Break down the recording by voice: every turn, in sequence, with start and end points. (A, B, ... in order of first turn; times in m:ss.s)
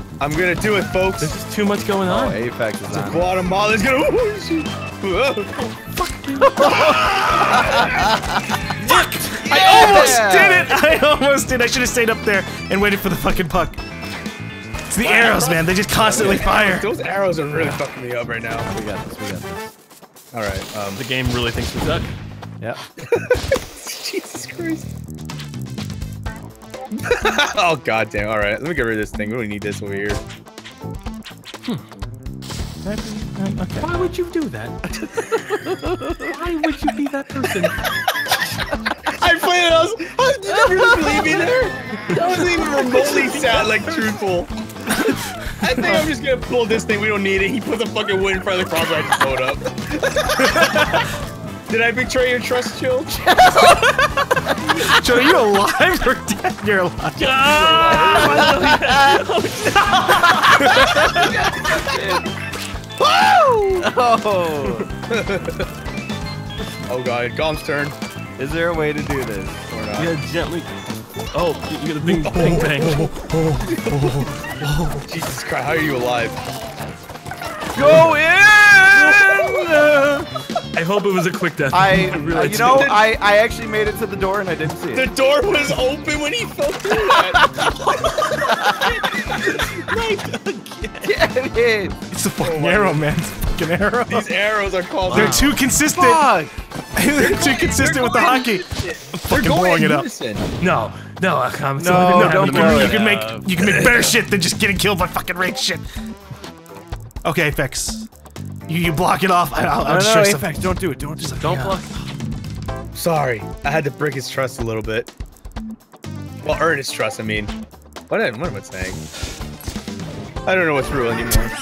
0:00.2-0:01.4 A
0:01.2-0:02.4 B
0:02.1-0:03.3 C
0:02.9-0:05.7 A
0:06.0-0:07.0 D
0:06.4-0:08.6 C
0:06.4-0:08.2 A
0:08.8-0:13.8 D
0:08.8-0:10.1 B
0:09.4-0:10.3 A
0:09.4-0:10.8 C
0:14.9-0:16.9 D
0:15.0-0:18.7 A
0:16.0-0:16.5 C
0:18.6-0:19.7 C
0:20.3-0:21.0 A
0:21.0-0:22.1 B
0:23.0-0:24.9 A
0:26.9-0:30.2 A
0:32.8-0:33.9 D
0:33.8-0:34.8 B
0:35.3-0:36.3 C
0:36.2-0:37.8 B
0:39.1-0:44.5 A
0:40.4-0:41.6 C
0:42.1-0:44.2 B
0:44.9-0:45.2 D
0:45.6-0:51.0 A
0:50.4-0:51.0 D
0:51.7-0:53.8 A
0:53.2-0:53.9 C
0:54.6-0:55.0 C
0:54.8-0:57.4 D
0:57.2-1:01.3 B
0:57.4-0:58.6 A
0:57.8-0:59.2 C
1:00.1-1:02.3 C
1:00.5-1:01.3 D
1:03.0-1:03.8 A
1:03.8-1:04.9 C
1:05.1-1:05.7 A
1:06.9-1:07.9 A
1:08.4-1:10.1 C
1:09.8-1:10.1 A
1:09.9-1:13.1 B
1:12.1-1:13.0 A
1:12.3-1:15.0 D
1:13.7-1:14.3 A
1:15.0-1:16.4 A
1:17.7-1:20.3 C
1:17.8-1:18.2 B
1:18.9-1:19.8 B
1:20.7-1:23.0 B
1:21.7-1:25.1 C
1:22.3-1:23.1 A
1:24.9-1:28.1 A
1:26.9-1:29.1 C
1:27.8-1:31.2 B
1:29.2-1:29.8 A
1:31.0-1:32.0 C
1:32.1-1:34.3 D
1:32.4-1:33.1 A
1:34.1-1:35.6 A
1:35.1-1:35.6 B
1:35.1-1:36.4 D
1:35.9-1:36.5 C
1:37.0-1:40.1 D
1:37.1-1:40.4 A
1:40.6-1:43.4 B
1:41.8-1:43.7 C
1:41.9-1:45.8 D
1:43.6-1:44.1 A
1:47.2-1:48.1 D
1:48.7-1:51.8 D
1:49.8-1:51.8 C
1:51.4-1:51.9 B
1:52.9-1:55.1 A
1:56.4-1:57.5 A
1:58.1-1:59.0 A
2:00.4-2:01.5 A